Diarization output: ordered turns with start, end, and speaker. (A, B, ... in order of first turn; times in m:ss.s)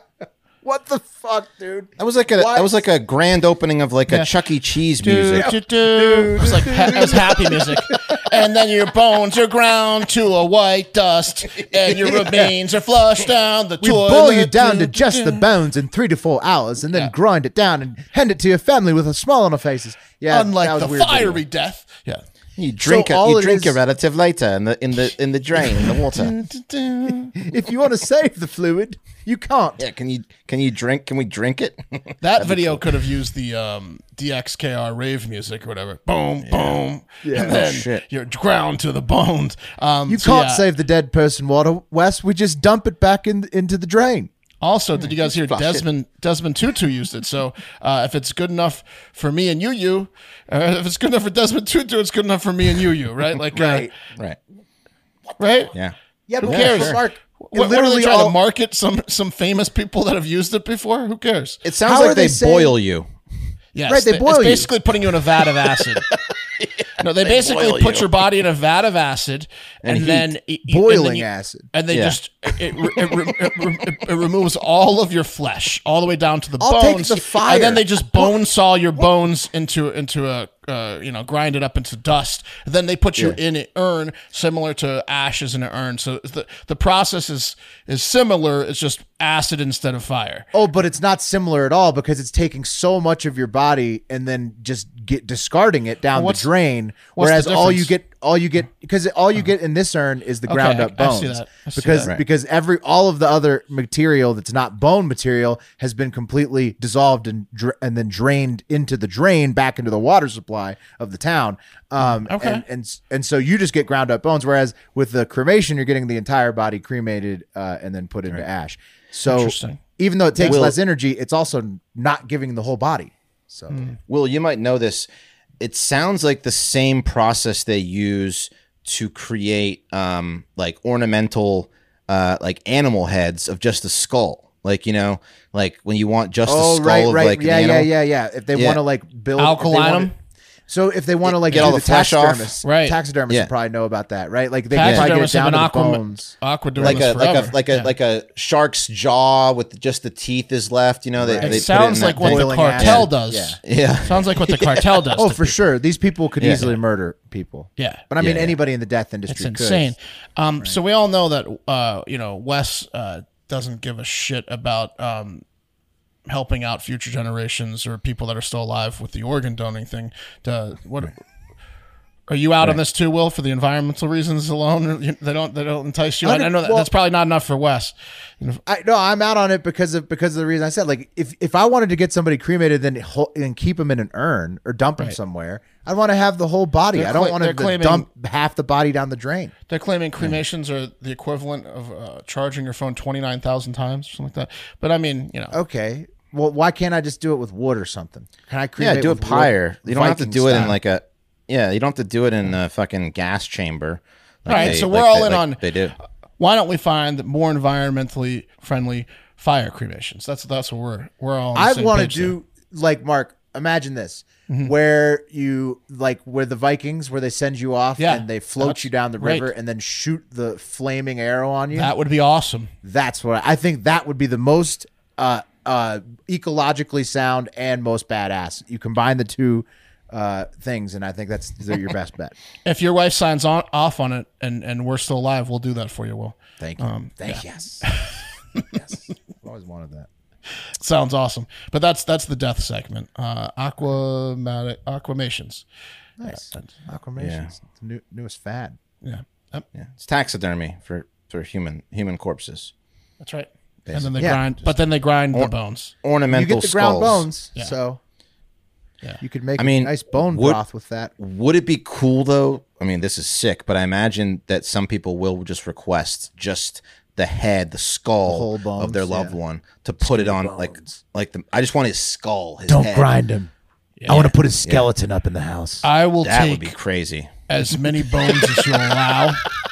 0:00.6-0:02.7 A
0:02.0-0:05.5 B
0:05.0-0:15.5 C
0:05.4-0:08.2 A
0:13.8-0:21.4 A
0:20.3-0:22.2 C
0:22.6-0:26.3 B
0:22.8-0:23.8 A
0:26.0-0:27.4 C
0:27.3-0:29.8 A
0:29.8-0:33.0 B
0:32.2-0:40.6 C
0:36.4-0:36.8 B
0:37.2-0:37.6 A
0:37.4-0:38.0 B
0:40.1-0:44.3 A
0:44.6-0:53.9 C
0:45.0-0:45.8 B
0:53.5-0:53.9 A
0:55.4-0:55.7 C
0:55.7-0:57.0 B
0:56.3-0:58.4 A
0:56.4-1:01.6 C
1:01.6-1:03.1 B
1:01.8-1:02.8 A
1:03.7-1:06.1 C
1:03.9-1:04.7 A
1:06.6-1:08.1 B
1:07.0-1:30.5 C
1:09.8-1:10.2 B
1:10.6-1:11.7 A
1:11.9-1:12.2 B
1:16.6-1:18.4 A
1:30.5-2:03.9 A
1:36.1-1:36.5 C
1:37.1-1:37.9 C
1:40.5-1:42.1 C
1:52.0-1:52.6 C
1:59.2-1:59.8 C
2:00.4-2:00.8 B
2:04.0-2:05.1 B
2:05.6-2:17.9 B
2:16.4-2:20.1 A
2:18.5-2:18.8 B
2:19.4-2:20.1 C
2:20.7-2:27.1 A
2:21.2-2:22.5 B
2:22.6-2:23.0 C
2:24.7-2:27.9 C
2:24.8-2:25.1 B
2:26.8-2:34.9 B
2:31.2-2:33.6 A
2:31.4-2:35.6 C
2:35.1-2:39.9 A
2:36.4-2:36.8 B
2:37.8-2:38.0 C
2:38.2-2:38.6 B
2:39.3-2:45.4 C
2:46.3-2:51.1 C
2:52.3-2:58.6 C
2:56.2-2:56.9 A
2:58.6-3:09.5 A
3:06.9-3:08.0 C
3:09.7-3:15.5 C
3:15.5-3:20.8 A
3:18.8-3:26.0 B
3:24.4-3:25.7 C
3:24.5-3:24.8 A
3:26.4-3:32.3 C
3:31.5-3:41.9 A
3:34.5-3:34.7 C
3:38.0-3:39.5 C
3:41.7-3:42.7 C
3:42.8-3:52.4 A
3:52.6-3:58.8 C
3:56.6-3:57.9 A
3:58.7-4:00.1 A
4:00.7-4:05.6 C
4:06.2-4:08.8 A
4:06.2-4:06.7 C
4:07.2-4:07.5 B
4:09.0-4:09.6 C
4:09.7-4:12.7 B
4:13.2-4:15.9 C
4:13.8-4:14.2 B
4:14.2-4:14.5 A
4:16.0-4:17.3 B
4:16.3-4:18.0 A
4:19.2-4:21.1 A
4:19.6-4:20.6 B
4:21.2-4:33.1 B
4:28.2-4:29.4 A
4:30.0-4:31.0 A
4:32.7-4:33.5 A
4:34.0-4:34.4 C
4:34.1-4:35.9 A
4:34.1-4:34.8 B
4:35.8-4:36.7 C
4:36.2-4:37.3 B
4:37.5-4:39.4 C